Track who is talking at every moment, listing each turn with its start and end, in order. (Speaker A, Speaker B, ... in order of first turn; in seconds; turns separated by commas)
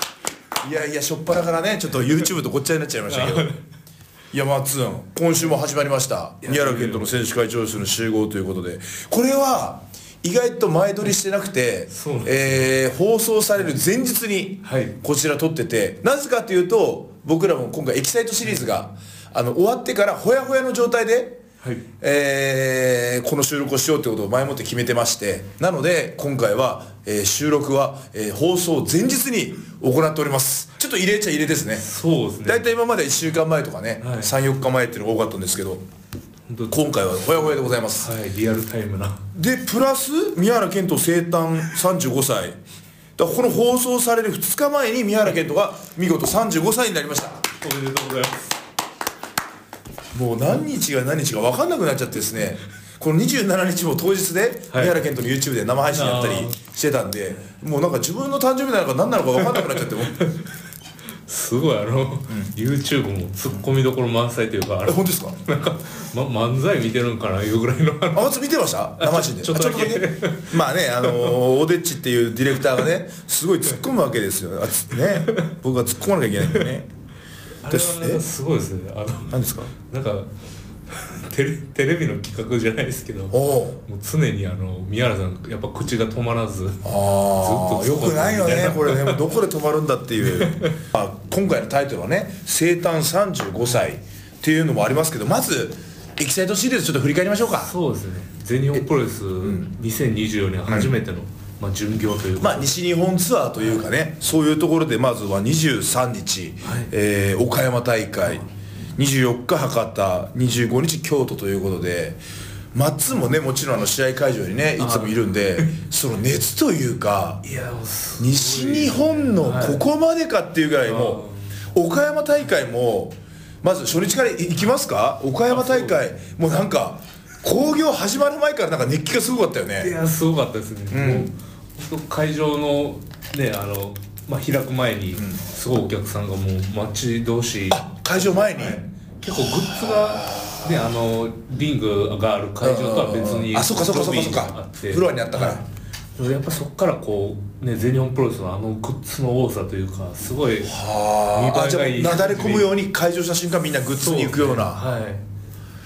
Speaker A: 0.6-3.5, Speaker B: 3.1-3.6, Speaker A: 4.3-21.4, Speaker B: 6.4-7.2, Speaker B: 11.9-12.8, Speaker B: 14.6-14.9, Speaker A: 22.0-31.9, Speaker B: 31.7-32.6, Speaker A: 32.4-35.8, Speaker B: 34.0-34.3, Speaker B: 36.5-39.3, Speaker A: 36.7-38.1, Speaker A: 39.3-42.6, Speaker A: 43.2-47.5, Speaker B: 47.6-48.5, Speaker A: 50.1-60.1, Speaker B: 54.7-55.0, Speaker B: 55.9-56.5, Speaker B: 59.4-60.5, Speaker B: 61.3-68.3, Speaker A: 64.8-65.4, Speaker A: 68.1-76.9, Speaker B: 69.0-71.4, Speaker B: 75.0-75.5, Speaker B: 77.6-80.3, Speaker A: 77.7-78.2, Speaker A: 79.3-79.7, Speaker B: 80.9-89.3, Speaker A: 83.3-83.8, Speaker A: 86.8-97.7, Speaker B: 90.2-90.8, Speaker B: 97.6-102.8, Speaker A: 99.4-99.7, Speaker A: 100.7-100.9, Speaker A: 102.4-108.4, Speaker B: 103.6-103.8, Speaker B: 106.6-106.9, Speaker A: 109.0-112.2, Speaker A: 112.7-117.4, Speaker B: 114.8-115.7, Speaker B: 117.4-119.8, Speaker A: 118.2-129.9, Speaker B: 120.8-121.7, Speaker B: 125.5-126.0, Speaker B: 129.8-145.6, Speaker A: 130.9-131.3, Speaker A: 135.2-135.4, Speaker A: 137.7-141.0, Speaker A: 142.6-145.6, Speaker B: 146.2-152.7, Speaker A: 150.7-154.8, Speaker B: 154.0-155.2